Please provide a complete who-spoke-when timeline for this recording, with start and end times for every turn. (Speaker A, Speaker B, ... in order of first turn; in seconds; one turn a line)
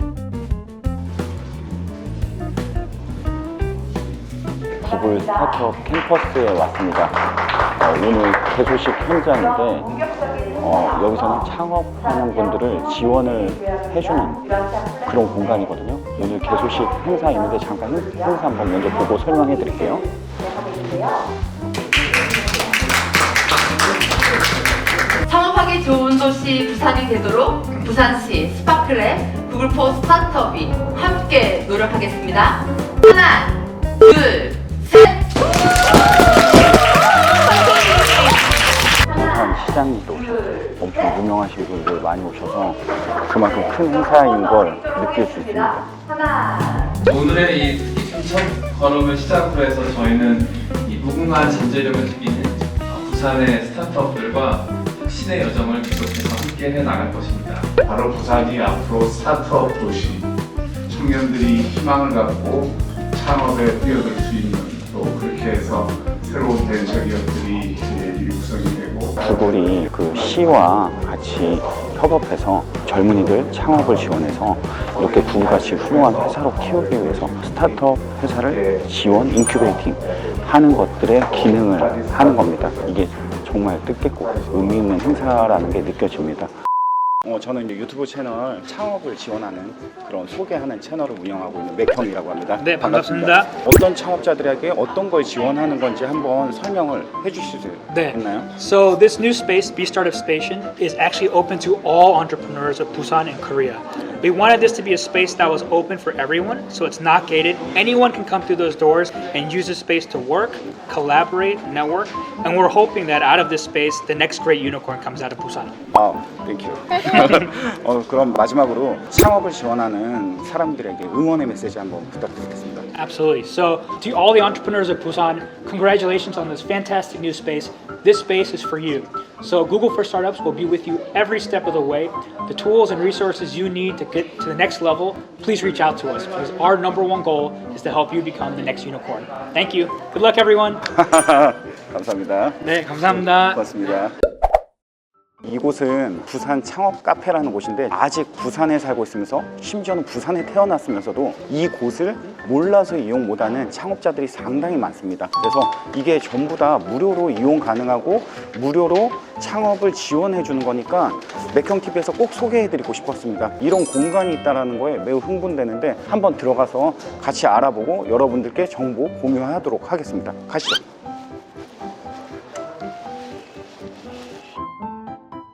Speaker A: 4.8-20.1
Speaker B: 10.2-10.6
Speaker B: 20.4-21.3
Speaker B: 22.2-22.7
Speaker B: 25.3-35.3
Speaker B: 37.5-38.2
Speaker B: 39.1-39.5
Speaker A: 39.1-45.9
Speaker B: 40.1-41.0
Speaker B: 43.3-47.0
Speaker C: 47.0-57.7
Speaker D: 57.8-60.3
Speaker D: 60.9-70.5
Speaker A: 69.2-86.5
Speaker D: 75.0-76.4
Speaker D: 76.9-77.6
Speaker D: 78.5-78.8
Speaker D: 81.5-82.7
Speaker A: 87.2-98.5
Speaker E: 92.6-93.5
Speaker E: 97.9-115.7
Speaker A: 115.9-122.9
Speaker E: 123.0-140.9
Speaker A: 140.8-144.1
Speaker E: 142.6-143.6
Speaker A: 145.4-170.8